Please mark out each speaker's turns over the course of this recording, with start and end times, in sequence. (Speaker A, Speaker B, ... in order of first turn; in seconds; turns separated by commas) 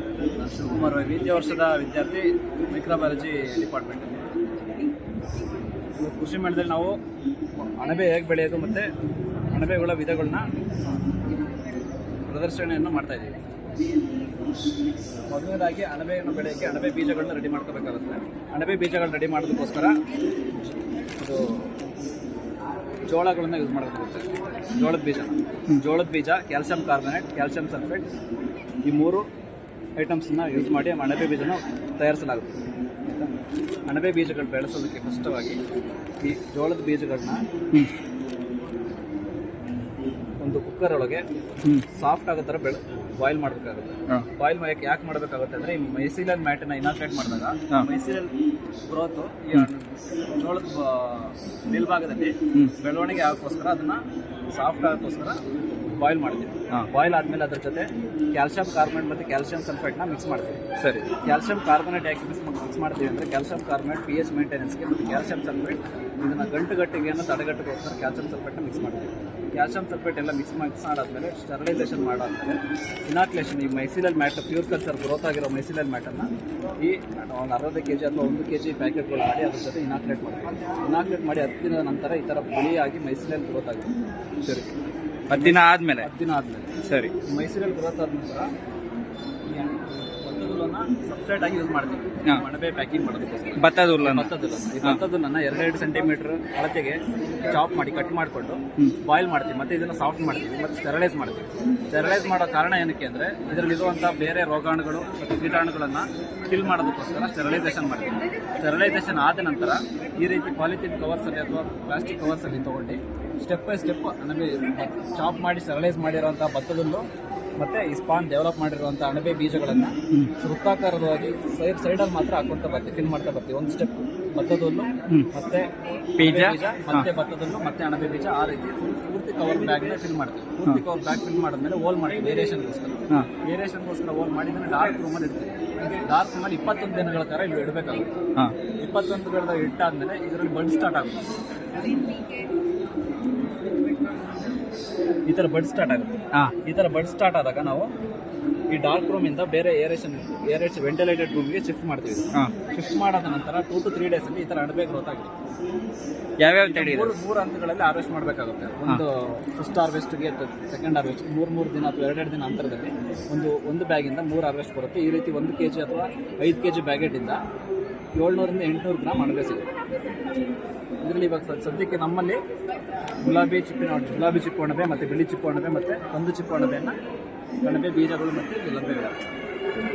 Speaker A: 0.4-4.3, Speaker A: 6.0-7.0, Speaker A: 7.8-8.9, Speaker A: 9.5-10.5, Speaker A: 12.3-13.4, Speaker A: 15.3-20.0, Speaker A: 21.2-21.7, Speaker A: 23.1-28.1, Speaker A: 28.8-29.2, Speaker A: 30.0-32.6, Speaker A: 33.9-35.6, Speaker A: 36.2-37.4, Speaker A: 40.4-41.2, Speaker A: 41.9-48.3, Speaker A: 48.9-55.4, Speaker A: 56.0-60.6, Speaker B: 60.8-61.0, Speaker A: 61.2-76.3, Speaker A: 76.8-83.9, Speaker B: 84.4-84.7, Speaker B: 85.3-86.1, Speaker A: 85.3-86.7, Speaker B: 86.9-87.1, Speaker A: 87.2-88.5, Speaker A: 89.5-117.0, Speaker B: 93.6-95.0, Speaker A: 117.6-138.1, Speaker B: 126.2-127.1, Speaker A: 138.8-141.3, Speaker A: 145.3-147.9, Speaker A: 148.7-155.3, Speaker B: 156.4-157.1, Speaker A: 156.6-167.4, Speaker A: 168.2-169.7, Speaker A: 171.0-172.4, Speaker A: 173.2-176.9, Speaker A: 177.6-179.2